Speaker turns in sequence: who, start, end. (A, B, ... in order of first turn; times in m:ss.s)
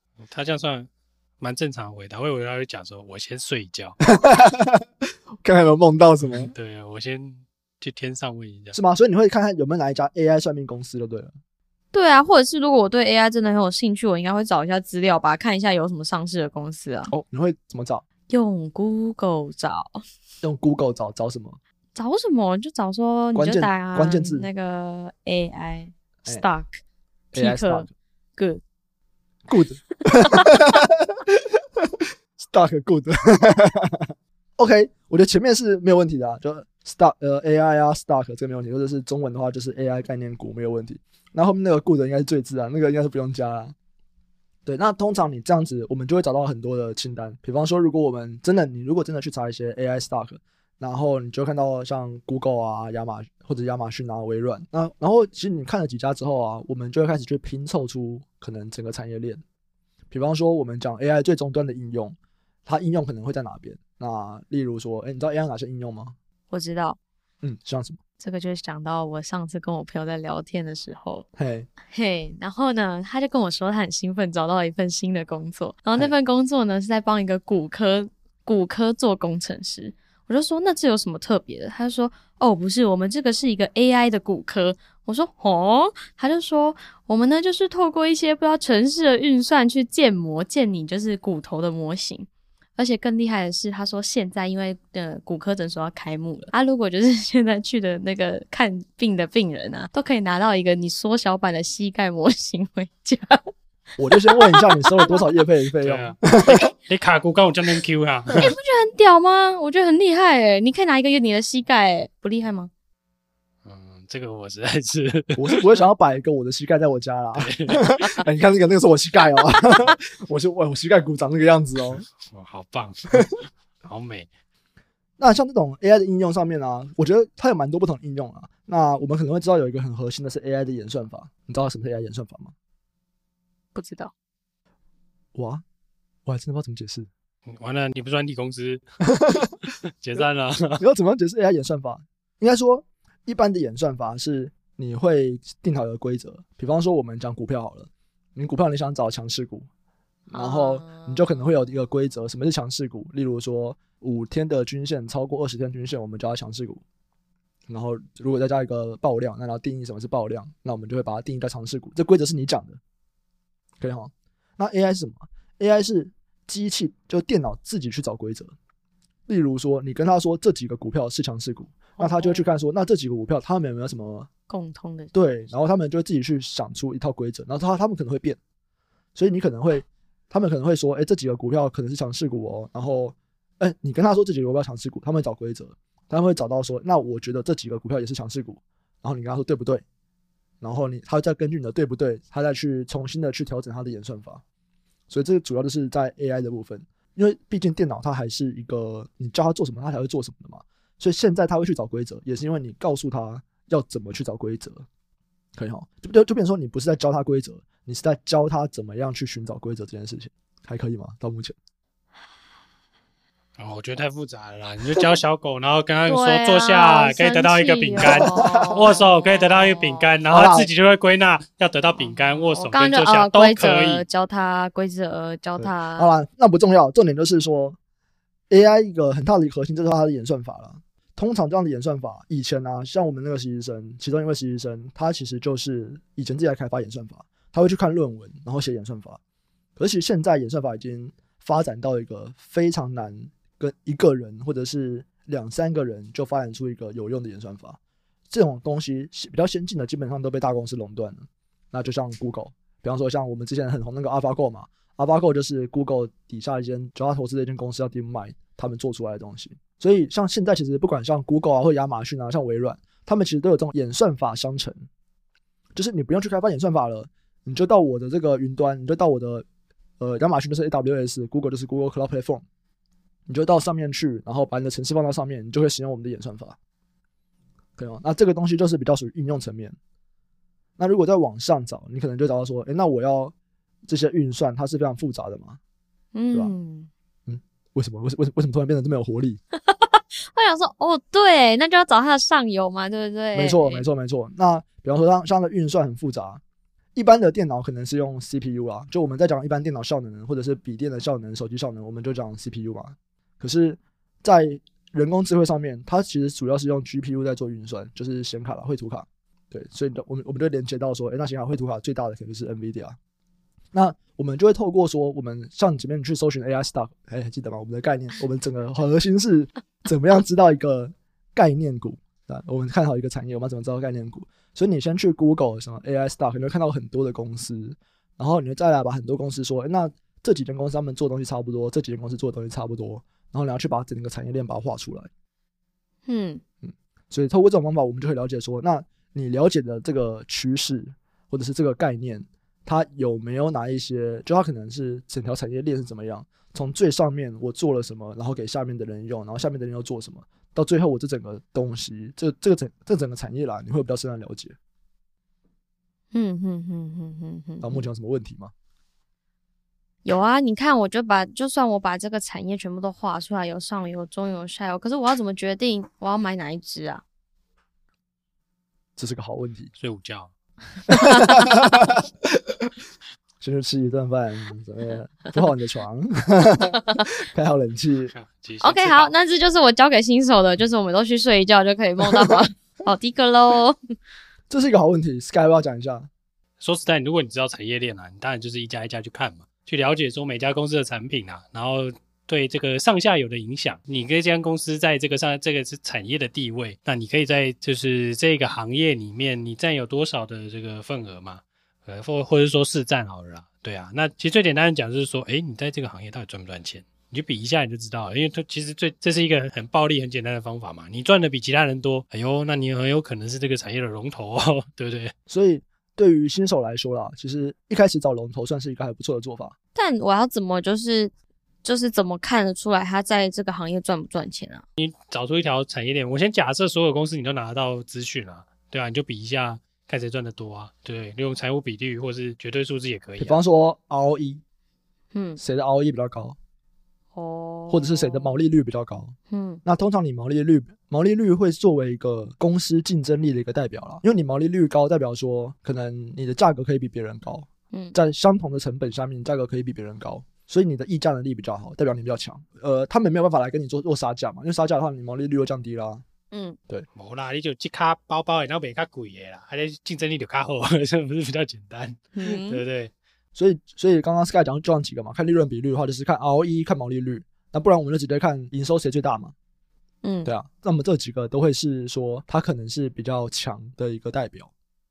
0:00.2-0:04.0 A
0:04.1-0:04.8 B
0:05.4-0:06.5 B
0:06.2-0:08.8 A
0:08.7-0:11.3 B
0:11.9-0:17.1 C
0:17.1-0:18.0 B
0:18.3-0:20.0 C
0:20.4-0:21.6 B
0:21.9-0:26.8 C
0:23.4-0:24.5 B
0:27.3-0:28.6 C
0:27.3-0:27.9 B
0:29.5-0:31.4 B
0:32.4-0:43.8 B
0:44.7-0:59.4 B
1:00.1-1:06.2 B
1:06.5-1:07.0 C
1:07.4-1:08.0 B
1:08.2-1:11.3 C
1:11.4-1:11.7 B
1:11.9-1:43.5 C
1:44.0-1:46.7 B
1:45.8-1:48.5 A
1:48.4-1:52.7 C
1:53.6-1:55.8 A
1:55.4-2:02.1 B
1:57.4-1:57.9 A
2:02.2-2:04.3 A
2:05.2-2:12.5 B
2:13.8-2:14.1 C
2:15.3-2:15.6 B
2:16.3-2:17.1 B
2:17.5-2:20.8 A
2:20.8-2:29.7 B
2:30.3-2:36.8 B
2:30.3-2:31.2 C
2:37.7-2:42.8 B
2:43.8-2:48.5 B
2:49.3-2:54.3 B
2:52.0-2:52.4 C
2:54.5-2:55.1 C
2:55.1-2:58.4 B
2:59.2-3:09.8 B
3:10.6-3:14.4 B
3:15.1-3:24.8 B
3:25.6-3:31.6 B
3:33.6-3:44.0 A
3:36.1-3:40.1 C
3:38.0-3:38.8 B
3:40.3-3:40.7 B
3:42.3-3:46.1 C
3:45.6-3:47.8 B
3:48.5-3:59.2 B
3:59.8-4:24.8 B
4:25.8-4:29.4 B
4:30.0-4:32.4 B
4:33.3-4:36.6 B
4:37.8-4:39.8 B
4:40.8-4:43.3 B
4:43.9-4:45.6 B
4:46.2-4:46.9 C
4:47.3-4:49.4 B
4:49.6-4:53.8 C
4:53.3-4:56.4 B
4:56.9-5:13.0 B
5:13.7-5:35.1 B
5:36.1-5:36.4 C
5:36.6-5:54.6 B
5:56.1-5:57.8 C
5:57.6-5:58.5 B
6:00.0-6:07.0 C
6:09.0-6:09.7 B
6:09.8-6:10.3 A
6:10.9-6:12.0 B
6:10.9-6:11.6 C
6:13.4-6:18.1 B
6:18.1-6:19.1 A
6:18.6-6:23.8 C
6:24.5-6:26.1 B
6:26.6-6:55.1 A
6:55.3-6:59.5 B
6:59.8-7:01.1 C
7:01.6-7:04.6 C
7:04.8-7:13.4 A
7:13.2-7:14.4 B
7:15.1-7:15.4 C
7:15.4-7:16.4 B
7:17.2-7:18.3 C
7:17.7-7:19.1 B
7:19.3-7:19.6 C
7:19.6-7:36.0 B
7:36.3-7:36.6 C
7:36.9-7:42.9 A
7:42.1-7:42.6 C
7:43.3-7:49.3 B
7:50.0-7:50.3 C
7:50.2-7:54.5 B